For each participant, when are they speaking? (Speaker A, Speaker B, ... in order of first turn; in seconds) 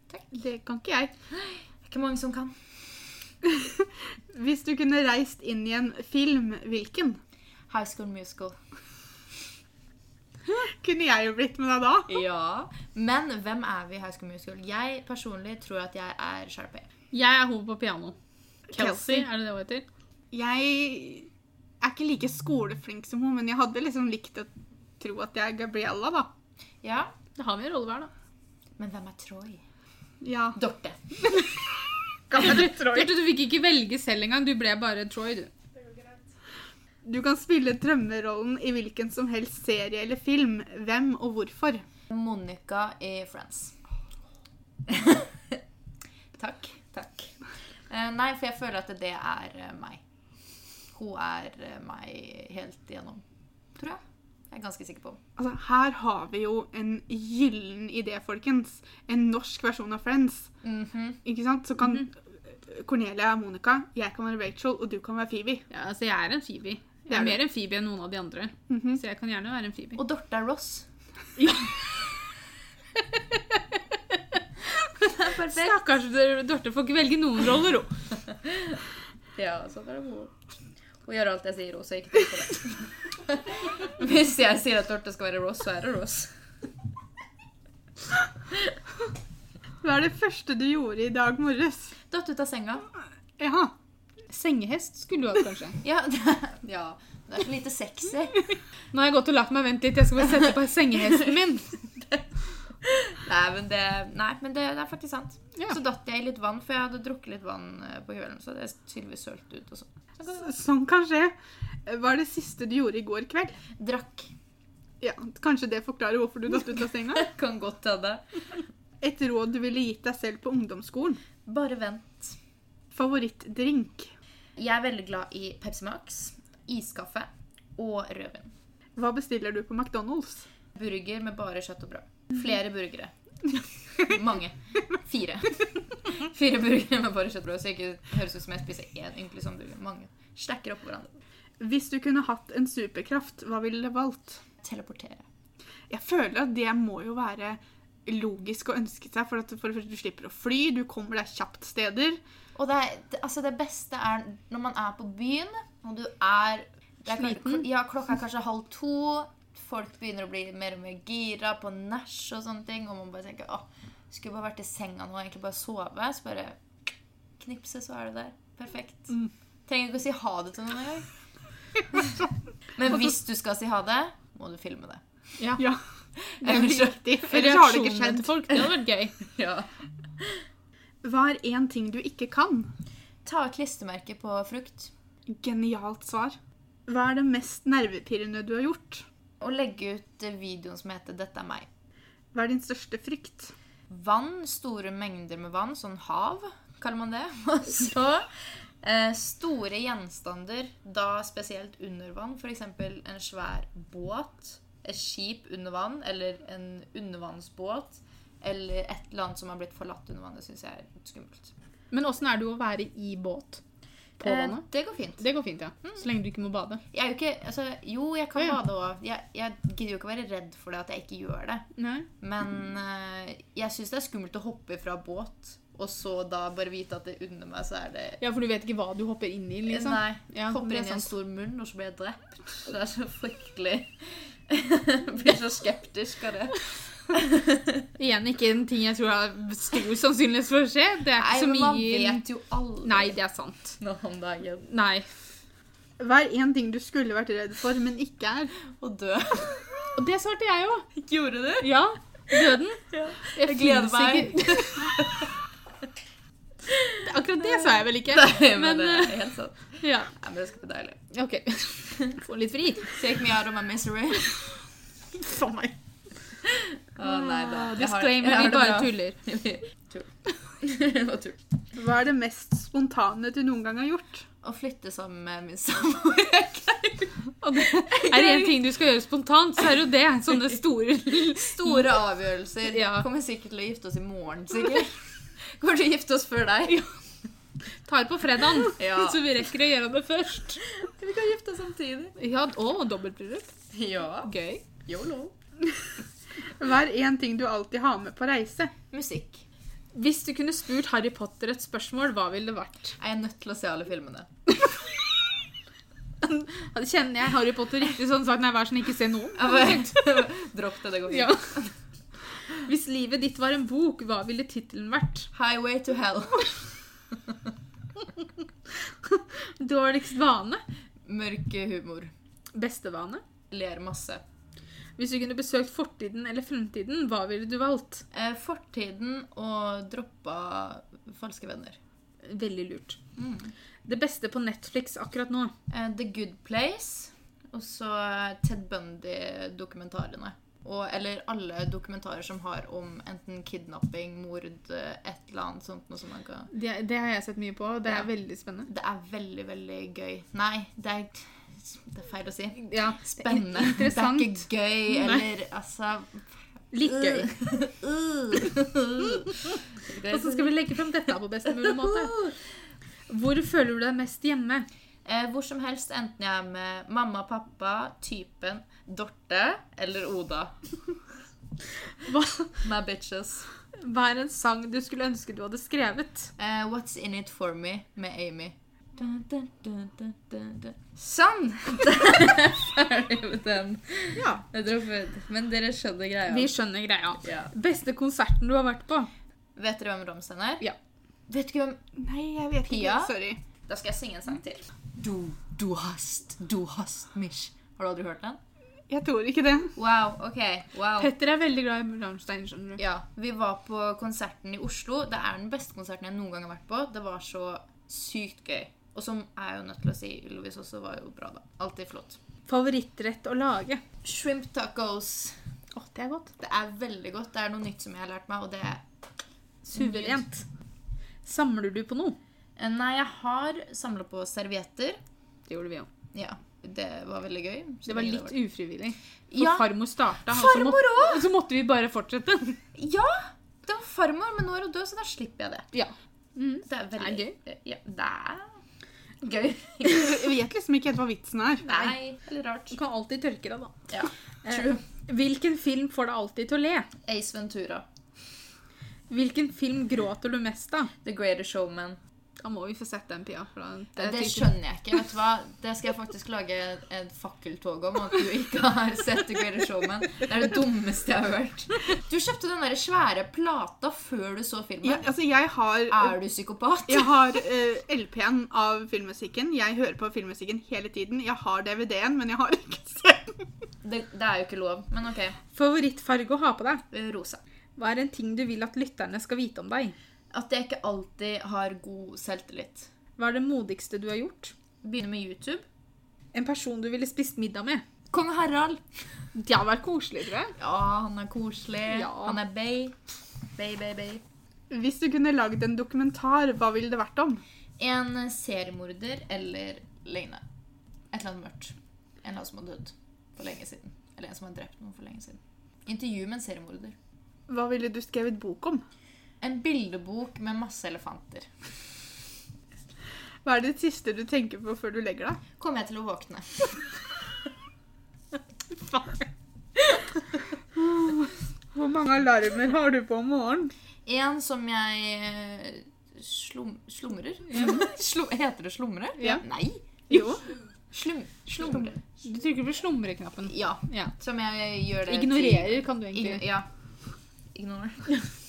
Speaker A: 0.3-1.1, 3.6-7.2, 10.6-12.2, 18.7-19.3, 20.3-21.3, 21.8-26.3, 30.2-30.6, 32.3-33.1, 35.8-36.2, 37.0-41.8, 55.4-60.5, 61.2-65.7, 67.1-67.4, 68.7-69.0, 89.8-91.9, 93.4-93.7, 110.3-111.3, 111.8-113.6, 115.0-117.3, 119.0-121.2, 122.9-124.1, 129.0-130.5, 141.6-144.4, 145.9-152.2, 176.4-178.3, 181.0-182.7, 185.3-189.1, 192.3-193.5, 246.0-248.5, 271.8-274.2, 296.6-298.7, 392.0-393.4, 398.9-399.8, 439.9-441.7, 464.8-466.1, 466.9-473.4, 494.7-497.4, 507.5-508.8, 513.4-515.4, 521.0-523.7, 530.1-530.4
Speaker B: 1.3-3.2, 7.7-8.6, 12.1-16.9, 26.8-27.1, 28.8-29.6, 30.6-31.3, 42.1-43.8, 44.9-45.6, 46.4-50.0, 50.9-53.2, 53.8-55.2, 60.6-61.2, 70.0-70.9, 75.0-75.8, 78.3-78.8, 79.4-80.3, 81.0-86.3, 92.1-92.9, 95.8-98.4, 102.8-110.5, 113.8-114.3, 117.1-118.6, 121.5-122.4, 124.6-128.5, 130.8-133.1, 134.0-141.2, 144.6-145.2, 152.6-166.6, 167.4-169.2, 169.7-171.1, 172.8-175.0, 176.2-177.0, 178.5-180.4, 183.2-184.9, 189.4-191.7, 193.9-211.5, 214.2-215.2, 216.9-221.7, 222.2-228.2, 229.7-237.9, 241.2-243.2, 243.8-244.7, 248.7-250.0, 250.9-251.8, 252.3-255.3, 258.0-261.0, 262.9-264.4, 266.5-271.4, 274.4-278.6, 281.3-286.9, 288.8-289.3, 290.6-292.1, 293.7-295.3, 298.9-299.4, 303.0-304.3, 309.4-311.7, 315.3-317.2, 321.1-322.1, 323.5-324.2, 328.1-331.8, 333.2-333.5, 335.7-346.5, 348.7-356.3, 356.8-360.5, 361.5-362.4, 365.1-370.9, 372.6-373.5, 376.4-386.5, 387.2-387.5, 389.6-390.7, 391.3-391.8, 392.7-393.1, 393.7-398.4, 399.8-401.1, 402.8-412.2, 414.0-415.4, 416.4-418.8, 419.6-420.2, 422.6-425.0, 426.1-428.4, 429.3-429.7, 430.3-431.2, 432.8-435.7, 436.7-438.6, 439.2-440.2, 441.6-442.8, 443.9-444.8, 447.1-447.9, 451.0-452.0, 454.0-465.1, 465.9-467.2, 473.8-475.4, 476.9-477.4, 480.3-482.9, 484.8-485.6, 488.1-488.8, 490.6-493.0, 493.6-494.2, 497.8-500.4, 501.1-507.0, 509.4-511.5, 515.6-516.9, 519.8-520.0, 524.1-529.8, 530.9-532.0, 533.5-536.7, 537.5-538.1
Speaker C: 17.1-18.2, 18.7-19.9, 27.4-28.1, 32.3-35.5, 65.7-70.0, 71.4-71.7, 75.3-77.9, 94.3-95.8, 98.9-101.8, 157.1-157.7, 177.2-179.1, 211.9-213.6, 214.2-214.6, 215.2-216.8, 221.8-222.1, 228.2-231.1, 238.0-242.2, 242.8-243.8, 244.7-245.1, 249.9-250.9, 251.6-255.0, 257.0-260.1, 261.1-263.0, 265.2-265.7, 267.0-269.2, 277.4-281.9, 282.7-283.1, 287.9-290.6, 292.2-293.5, 294.3-294.6, 299.9-302.9, 306.2-310.0, 311.1-311.5, 312.5-315.3, 319.0-320.6, 322.5-323.2, 325.0-328.1, 332.2-333.0, 333.9-335.5, 346.5-348.7, 352.6-355.2, 356.7-357.4, 360.0-362.3, 363.1-364.7, 372.0-372.6, 373.8-376.3, 384.1-384.4, 386.3-389.1, 401.0-402.8, 412.5-413.8, 415.7-416.3, 419.8-420.4, 421.2-422.2, 425.5-425.9, 427.9-432.6, 435.7-437.4, 442.7-443.8, 444.4-446.9, 449.1-450.9, 452.4-454.5, 475.5-476.8, 477.8-480.0, 483.2-484.5, 486.3-487.8, 489.4-490.5, 491.9-492.4, 532.2-534.1, 535.1-536.5